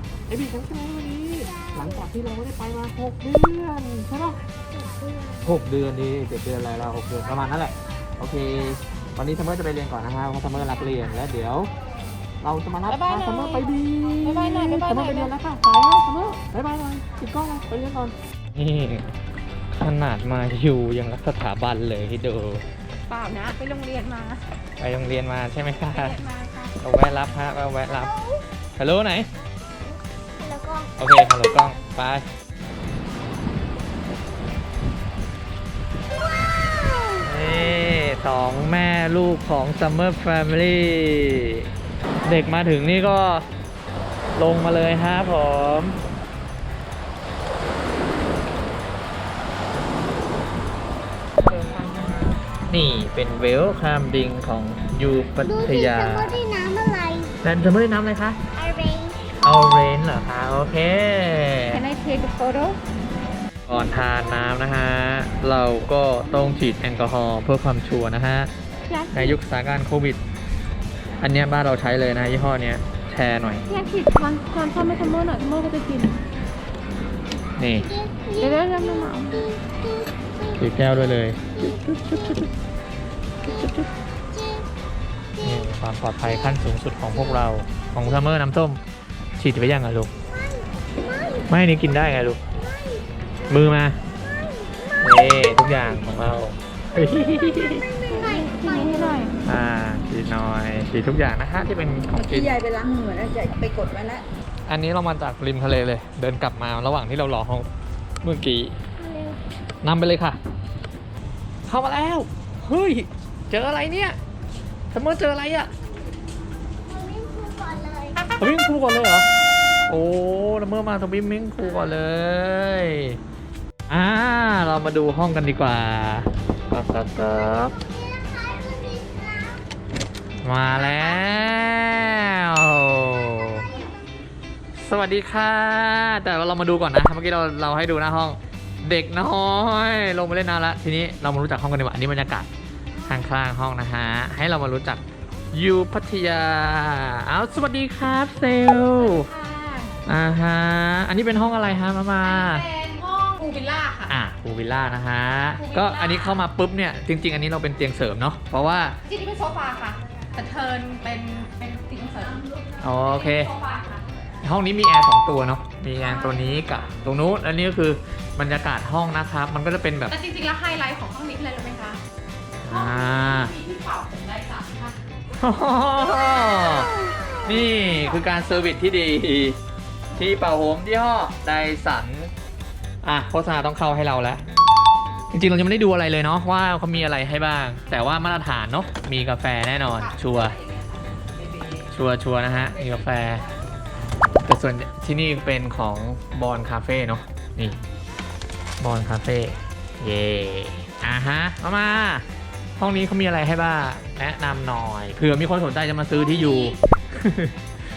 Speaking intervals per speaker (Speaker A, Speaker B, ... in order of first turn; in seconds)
Speaker A: 0.3-4.4, 5.5-11.7, 12.4-19.1, 19.7-22.6, 24.8-26.2, 26.8-28.1, 28.8-29.3, 31.0-32.3, 37.2-41.7, 42.2-43.5, 44.4-46.0, 52.7-56.4, 57.4-58.4, 59.4-61.8, 63.7-68.5, 69.1-70.2, 71.2-73.7, 77.6-77.9, 80.6-82.5, 83.5-83.9, 85.4-88.8, 89.4-90.1, 91.5-92.4, 93.5-94.0, 95.0-97.9, 99.4-102.6, 104.7-107.7, 108.2-108.8, 109.8-110.4, 111.7-114.2, 114.9-115.7, 118.4-119.3, 119.9-123.2, 123.9-127.7, 130.4-133.7, 134.8-142.5, 143.1-145.0, 145.5-149.3, 150.1-152.7, 154.1-159.0, 162.8-163.5, 164.4-170.2, 172.6-173.5, 175.4-179.6, 180.2-182.3, 183.0-184.4, 185.3-190.6, 191.9-193.4, 194.4-197.8, 198.8-202.2, 202.8-207.6
Speaker B: 1.4-2.1, 4.7-5.5, 28.0-28.4, 30.4-30.9, 36.1-37.8, 55.4-57.4, 58.6-59.4, 77.8-80.6, 81.4-82.5, 84.3-84.7, 85.3-87.5, 90.3-91.5, 92.5-93.6, 94.2-95.5, 97.7-99.3, 109.0-109.4, 116.9-118.4, 127.2-129.6, 130.7-132.0, 133.3-133.9, 176.2-177.4
Speaker C: 12.9-13.7, 14.2-15.3, 23.1-24.4, 25.9-26.8, 51.5-52.3, 61.7-62.8, 68.9-69.4, 73.7-76.2, 78.4-79.5, 98.1-99.4, 148.9-150.0, 152.2-154.2, 155.6-156.4, 159.1-164.1, 166.0-167.0, 170.1-172.0, 172.7-175.0, 189.9-191.9, 192.7-193.5, 206.1-206.8
Speaker D: 102.2-104.2